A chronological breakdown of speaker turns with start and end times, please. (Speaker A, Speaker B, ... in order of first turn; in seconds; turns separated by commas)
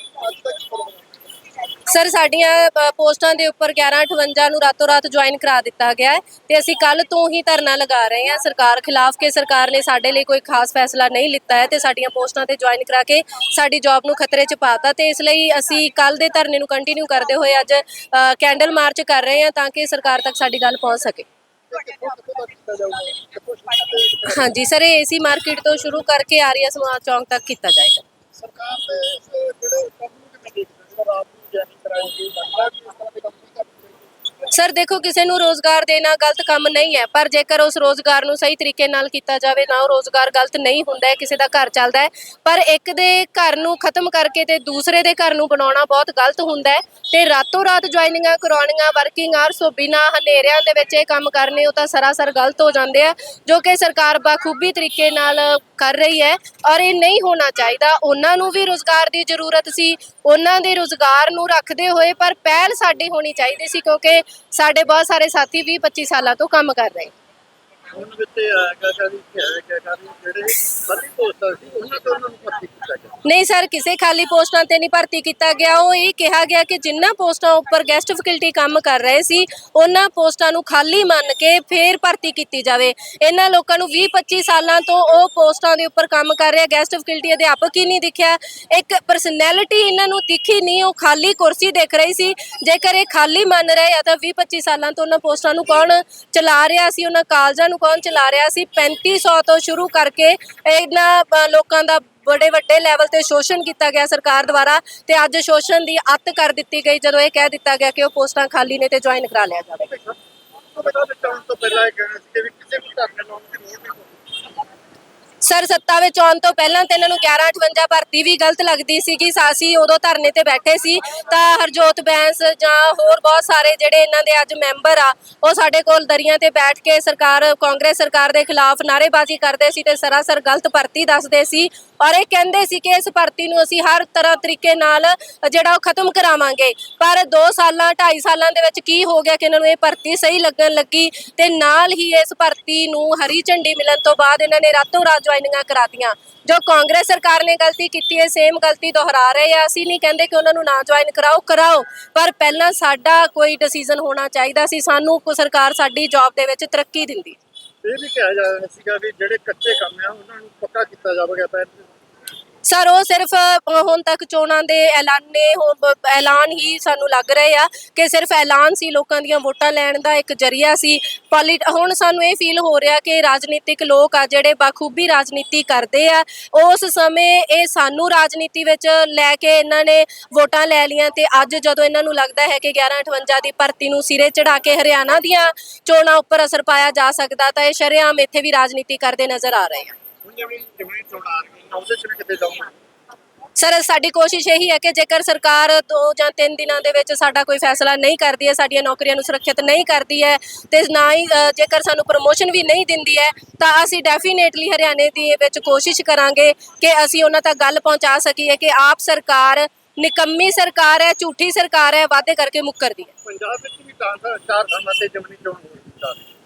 Speaker A: 0.2-1.0, Speaker B: 1.9-21.3, Speaker A: 21.7-24.5, Speaker B: 24.3-28.0, Speaker A: 28.4-34.1, Speaker B: 34.5-67.1, Speaker A: 67.9-73.2, Speaker B: 73.2-109.9, Speaker A: 110.7-114.4, Speaker B: 115.4-157.4, Speaker A: 157.8-161.9, Speaker B: 162.7-189.9, Speaker A: 190.2-192.7, Speaker B: 193.6-213.1, Speaker A: 213.2-216.3